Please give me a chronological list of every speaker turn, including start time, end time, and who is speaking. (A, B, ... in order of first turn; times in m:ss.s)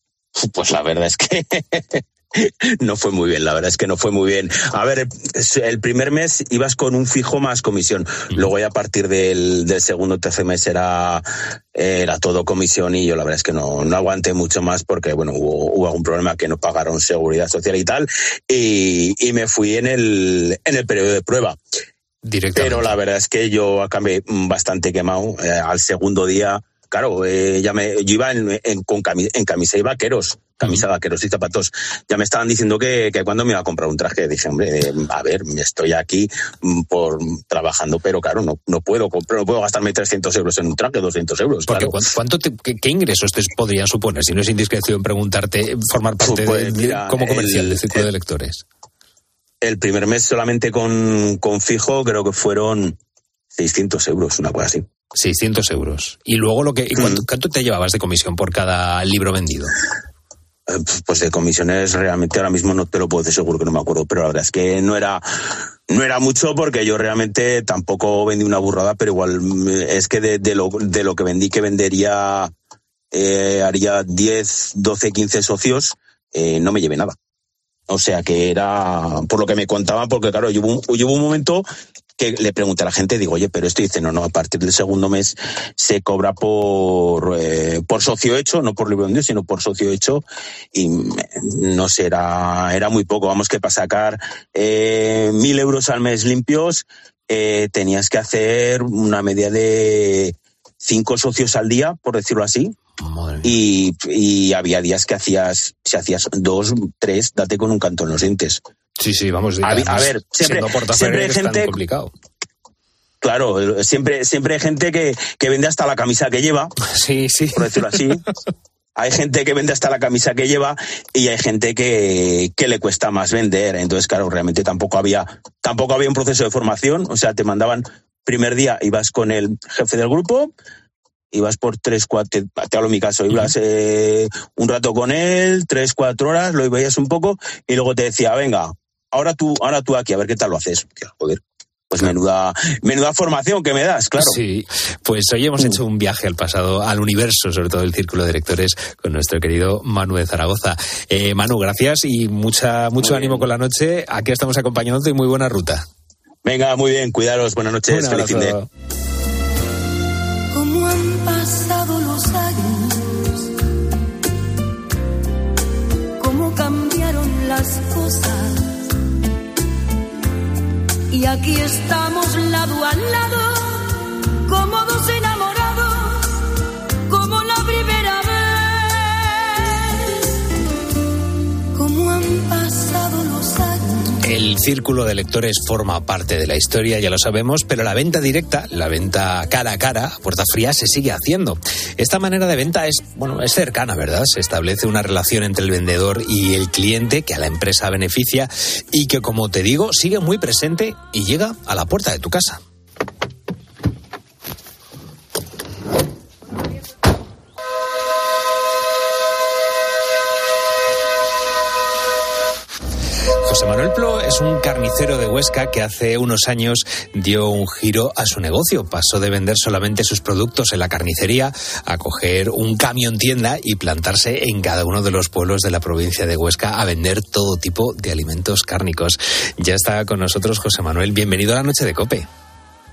0:00.4-0:11.2 A
0:11.7-0:21.6 A
0:22.2-0:22.9 B
0:22.6-0:42.0 A
0:41.6-0:48.6 B
0:46.2-0:48.0 A
0:49.6-0:53.0 A
0:53.5-0:54.8 A
0:55.1-0:59.7 B
1:00.7-1:05.2 A
1:05.9-1:12.5 A
1:13.1-1:17.2 A
1:17.9-1:21.6 A
1:22.2-1:42.8 A
1:43.0-1:43.5 B
1:43.4-1:48.6 A
1:49.0-1:52.1 B
1:49.6-1:51.7 A
1:53.2-1:56.7 A
1:56.8-1:57.9 B
1:57.5-1:58.2 A
1:59.0-2:10.5 A
2:11.3-2:24.4 A
2:24.2-2:35.8 B
2:33.0-2:33.4 A
2:36.4-2:38.6 A
2:37.9-2:38.7 B
2:40.5-2:43.3 C
2:46.2-2:48.7 C
2:51.1-2:56.3 C
2:57.1-2:59.9 C
3:01.7-3:04.2 C
3:04.2-3:22.6 B
3:33.4-3:52.3 B